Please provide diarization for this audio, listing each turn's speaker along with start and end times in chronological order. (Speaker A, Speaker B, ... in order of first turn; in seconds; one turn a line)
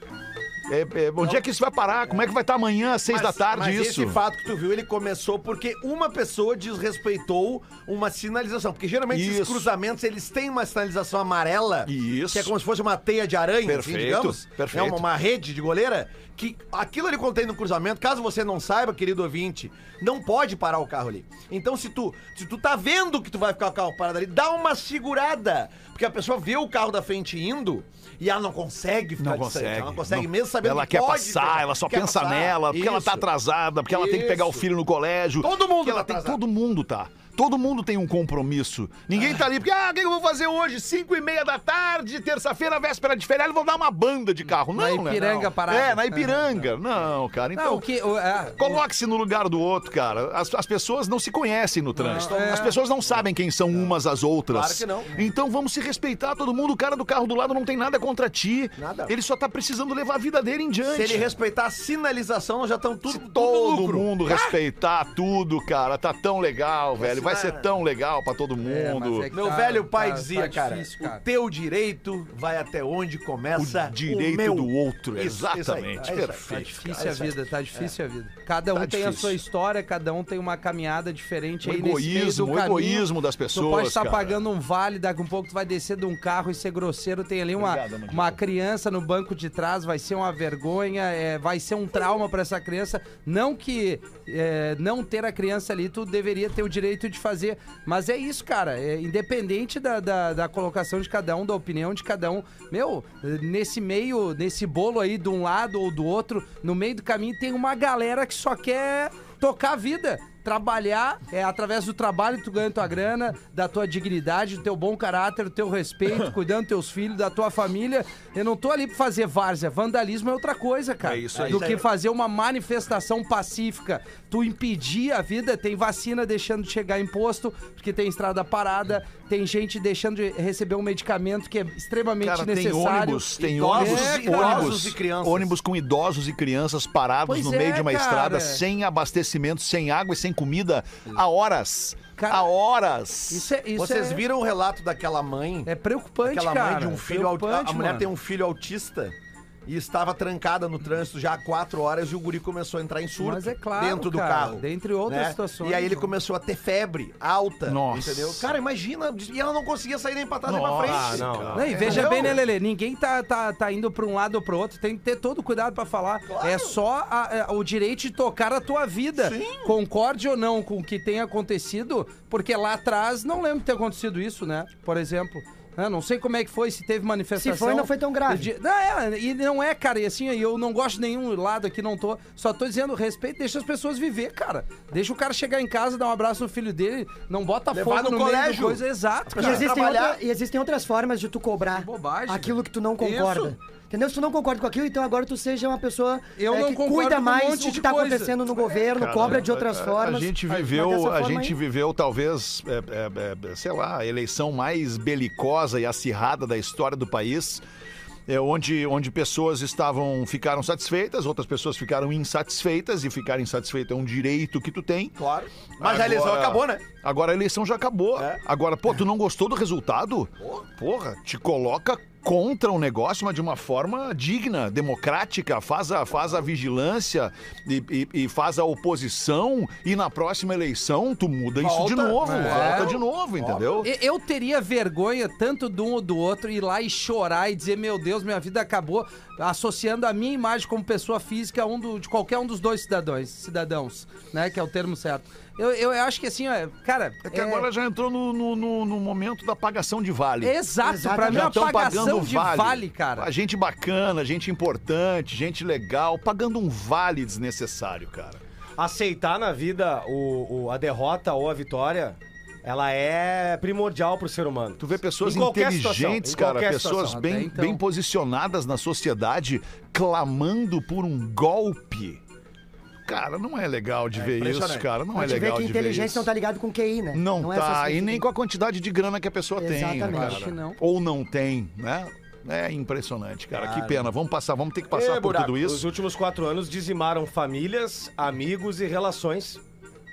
Speaker A: 0.7-4.2
Speaker B: 3.0-33.3
Speaker A: 9.1-9.7
Speaker A: 11.8-12.5
Speaker A: 13.7-15.1
Speaker A: 29.2-47.9
Speaker B: 33.9-34.7
Speaker B: 35.4-36.4
Speaker C: 44.7-46.6
Speaker C: 47.5-48.8
Speaker A: 48.6-61.3
Speaker C: 52.0-52.7
Speaker B: 52.1-53.2
Speaker B: 54.5-55.1
Speaker B: 58.8-59.1
Speaker B: 60.9-64.6
Speaker A: 63.1-69.3
Speaker B: 67.0-67.7
Speaker C: 68.6-71.2
Speaker B: 69.3-77.9
Speaker A: 73.5-77.0
Speaker C: 76.8-134.8
Speaker A: 78.7-79.4
Speaker A: 81.6-84.4
Speaker A: 87.5-88.4
Speaker A: 121.0-121.8
Speaker B: 121.3-121.8
Speaker A: 132.2-143.5
Speaker B: 133.4-135.5
Speaker C: 137.3-138.6
Speaker C: 142.2-142.5
Speaker C: 143.3-144.2
Speaker B: 143.8-145.7
Speaker C: 145.7-148.1
Speaker B: 146.2-149.1
Speaker B: 149.7-162.4
Speaker C: 153.2-156.1
Speaker A: 157.7-158.5
Speaker A: 160.5-162.3
Speaker D: 160.8-162.0
Speaker C: 161.5-189.7
Speaker B: 166.3-166.8
Speaker B: 169.2-169.8
Speaker E: 177.4-178.5
Speaker B: 187.7-190.2
Speaker E: 189.4-201.6
Speaker C: 191.7-192.6
Speaker B: 193.0-193.5
Speaker C: 196.4-198.4
Speaker A: 198.9-207.6
Speaker A: 208.3-215.2
Speaker B: 215.2-216.8
Speaker A: 215.8-233.9
Speaker B: 231.6-233.7
Speaker C: 232.2-232.9
Speaker C: 233.8-247.7
Speaker A: 247.2-250.5
Speaker C: 250.4-253.3
Speaker E: 250.8-251.9
Speaker A: 251.3-258.4
Speaker D: 258.8-267.1
Speaker A: 264.8-272.2
Speaker C: 267.0-267.8
Speaker A: 273.1-276.3
Speaker B: 274.1-274.9
Speaker E: 275.1-278.2
Speaker A: 277.1-285.9
Speaker E: 279.6-280.5
Speaker C: 280.1-280.8
Speaker B: 283.5-284.1
Speaker B: 284.9-285.5
Speaker D: 285.4-289.6